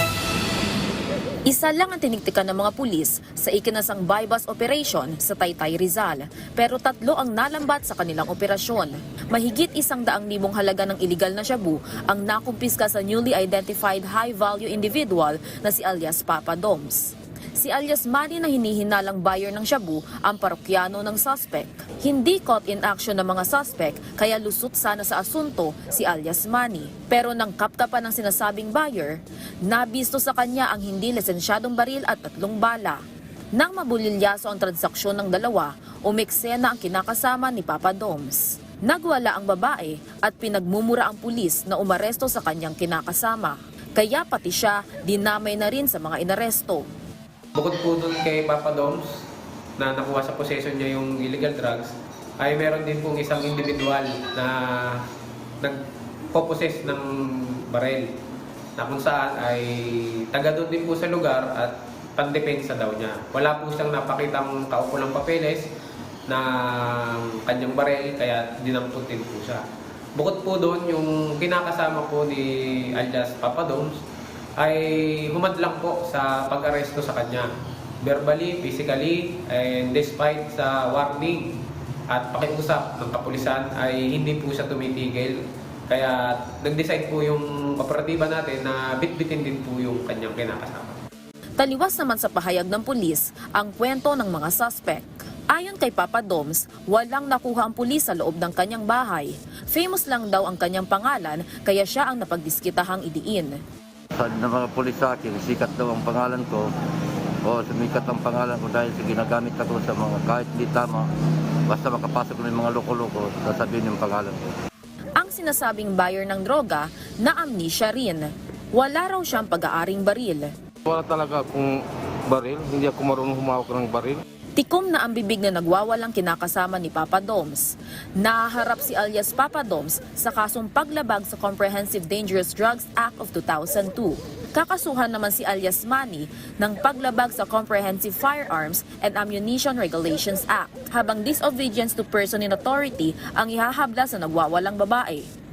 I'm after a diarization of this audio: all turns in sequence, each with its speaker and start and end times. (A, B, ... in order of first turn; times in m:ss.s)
0:01.5-0:33.0 A
0:33.6-0:46.8 A
0:47.6-0:49.2 B
0:49.8-0:55.0 B
0:56.3-0:58.1 B
0:58.8-1:05.7 B
1:06.3-1:09.6 B
1:10.2-1:14.0 B
1:14.6-1:17.5 B
1:18.0-1:21.5 B
1:22.1-1:31.0 B
1:31.6-1:43.5 A
1:44.2-1:46.7 C
1:47.4-1:51.1 C
1:51.7-1:54.4 C
1:55.2-2:00.5 A
2:00.8-2:04.2 D
2:04.6-2:25.3 A